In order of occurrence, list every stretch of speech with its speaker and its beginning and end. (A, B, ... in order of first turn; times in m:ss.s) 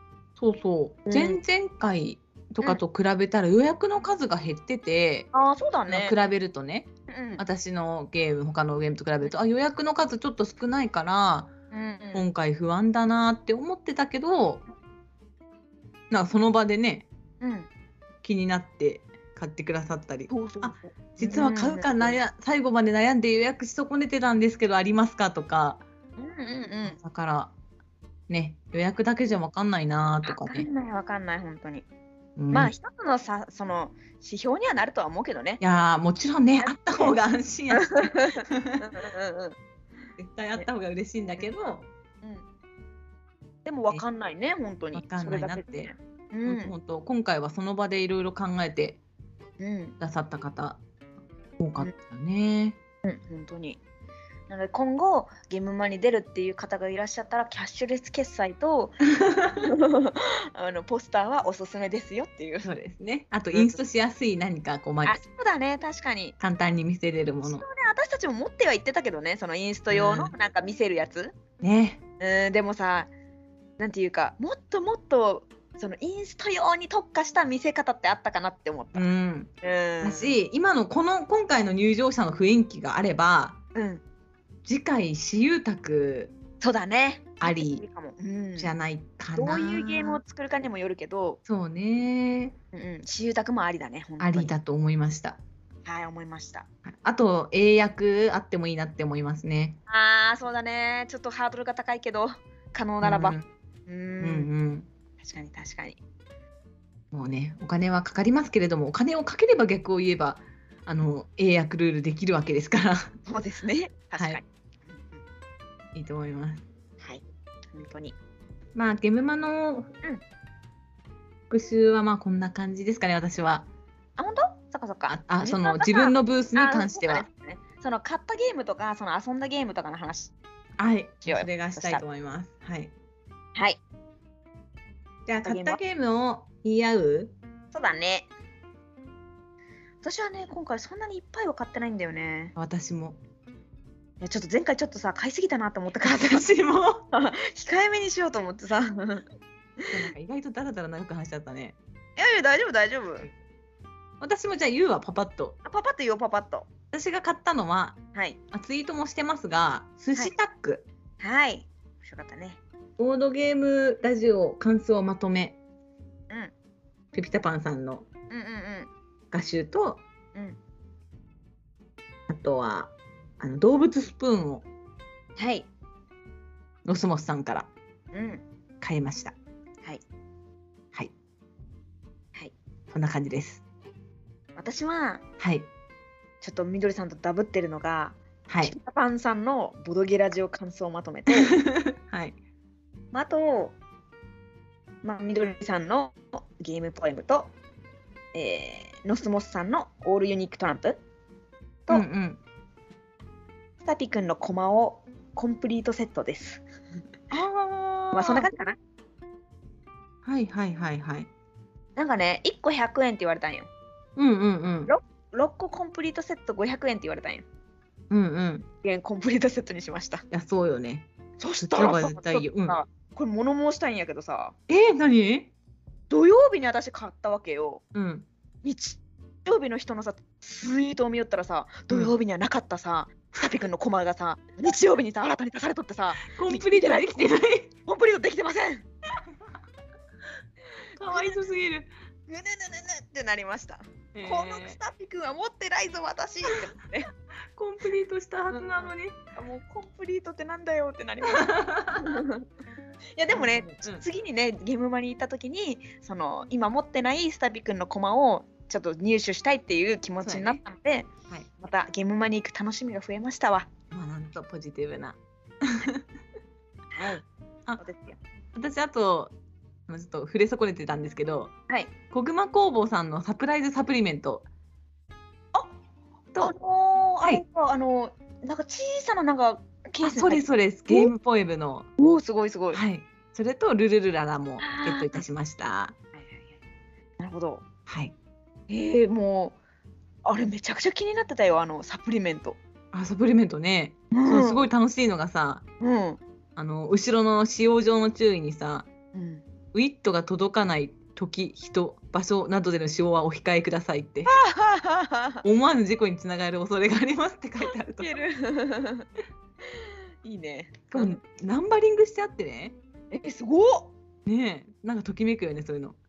0:00.4-0:05.3 A
0:01.1-0:01.4 B
0:05.3-0:06.2 B
0:05.9-0:11.5 A
0:07.1-0:07.4 B
0:11.7-0:12.2 B
0:12.1-0:14.6 A
0:16.1-0:17.0 A
0:17.4-0:17.7 B
0:18.2-0:25.8 A
0:20.3-0:22.2 B
0:26.2-0:27.0 B
0:26.8-0:27.5 A
0:28.3-0:30.7 A
0:30.2-0:31.8 B
0:32.4-0:32.7 A
0:32.5-0:35.6 B
0:35.6-0:38.8 A
0:36.6-0:37.1 B
0:37.7-0:39.6 B
0:40.2-0:41.8 A
0:43.6-0:46.7 B
0:44.9-0:45.9 A
0:46.4-0:49.0 A
0:49.6-0:50.0 B
0:50.0-0:50.8 A
0:51.6-0:52.8 A
0:53.0-0:53.8 B
0:54.5-1:02.7 B
0:59.2-0:59.7 A
1:02.6-1:05.2 A
1:03.5-1:03.8 B
1:05.0-1:06.3 B
1:06.4-1:07.6 A
1:07.4-1:11.4 B
1:09.9-1:10.3 A
1:11.6-1:12.0 A
1:12.2-1:13.1 B
1:13.8-1:19.1 B
1:18.9-1:19.5 A
1:19.6-1:20.4 B
1:20.0-1:23.6 A
1:23.7-1:24.0 B
1:24.6-1:26.3 A
1:26.6-1:28.7 B
1:27.4-1:27.8 A
1:28.6-1:30.2 A
1:29.4-1:31.4 B
1:31.4-1:32.5 A
1:32.7-1:34.5 B
1:34.2-1:35.4 A
1:35.8-1:36.6 B
1:36.8-1:39.8 A
1:39.9-1:44.5 B
1:43.0-1:43.4 A
1:44.2-1:44.9 A
1:45.2-1:46.0 B
1:47.1-1:53.1 A
1:53.3-1:55.2 B
1:55.9-1:56.6 A
1:57.0-1:58.2 B
1:58.7-1:59.9 A
2:01.5-2:03.7 A
2:04.2-2:10.3 B
2:05.1-2:07.2 A
2:10.8-2:12.9 A
2:11.2-2:12.0 B
2:13.5-2:13.8 B
2:15.2-2:17.3 A
2:15.4-2:15.8 B
2:17.7-2:18.3 B
2:20.0-2:22.5 B
2:22.6-2:23.2 A
2:24.2-2:26.4 B
2:26.0-2:27.0 A
2:27.1-2:29.2 B
2:29.8-2:30.1 B
2:29.9-2:31.8 A
2:32.2-2:33.3 B
2:34.2-2:35.6 A
2:35.6-2:36.7 B
2:36.9-2:38.0 A
2:38.5-2:40.8 A
2:41.2-2:42.6 B
2:43.0-2:45.6 A
2:47.1-2:48.1 A
2:48.3-2:48.9 B
2:49.3-2:50.0 A
2:52.3-2:54.6 A
2:55.4-2:55.7 B
2:56.8-2:57.7 A
2:58.1-2:58.4 B
2:58.8-2:59.3 A
3:02.9-3:03.6 A
3:04.6-3:05.2 B
3:05.4-3:05.7 A
3:06.4-3:11.6 B
3:08.5-3:08.7 A
3:11.3-3:12.4 A
3:13.1-3:13.7 B
3:15.0-3:17.5 B
3:18.3-3:21.0 B
3:21.9-3:22.4 A
3:23.8-3:26.6 B
3:27.3-3:28.5 A
3:28.1-3:28.8 B
3:30.2-3:31.3 A
3:32.0-3:33.7 B
3:34.2-3:34.9 A
3:34.8-3:37.4 B
3:38.1-3:38.7 A
3:38.8-3:40.2 B
3:40.3-3:41.1 A
3:41.4-3:44.5 B
3:41.6-3:42.8 A
3:44.7-3:45.5 A
3:46.1-3:47.8 B
3:47.9-3:48.3 A
3:48.6-3:57.3 B
3:56.2-3:57.7 A
3:57.8-3:58.8 B
4:00.8-4:01.4 B
4:01.0-4:01.9 A
4:02.3-4:07.1 B
4:04.1-4:04.8 A
4:07.5-4:09.2 A
4:08.5-4:12.4 B
4:11.4-4:12.2 A
4:13.2-4:23.7 B
4:13.3-4:14.0 A
4:20.2-4:20.6 A
4:23.9-4:26.0 A
4:26.9-4:27.2 B
4:27.8-4:28.2 B
4:28.5-4:29.3 A
4:29.9-4:31.5 A
4:32.1-4:34.4 A
4:36.4-4:41.1 B
4:40.0-4:41.9 A
4:42.0-4:42.8 B
4:42.7-4:45.9 A
4:44.6-4:45.2 B
4:46.2-4:46.5 B
4:47.2-4:47.6 B
4:47.9-4:48.1 A
4:48.7-4:49.6 B
4:50.2-4:52.6 B
4:52.9-4:55.6 A
4:54.1-4:54.7 B
4:55.8-4:56.2 B
4:56.6-4:58.9 A
4:59.1-4:59.4 B
4:59.7-5:04.3 A
5:04.3-5:05.4 B
5:05.4-5:08.1 A
5:07.6-5:09.1 B
5:09.6-5:11.2 B
5:10.9-5:12.8 A
5:13.1-5:13.9 B
5:14.2-5:16.0 A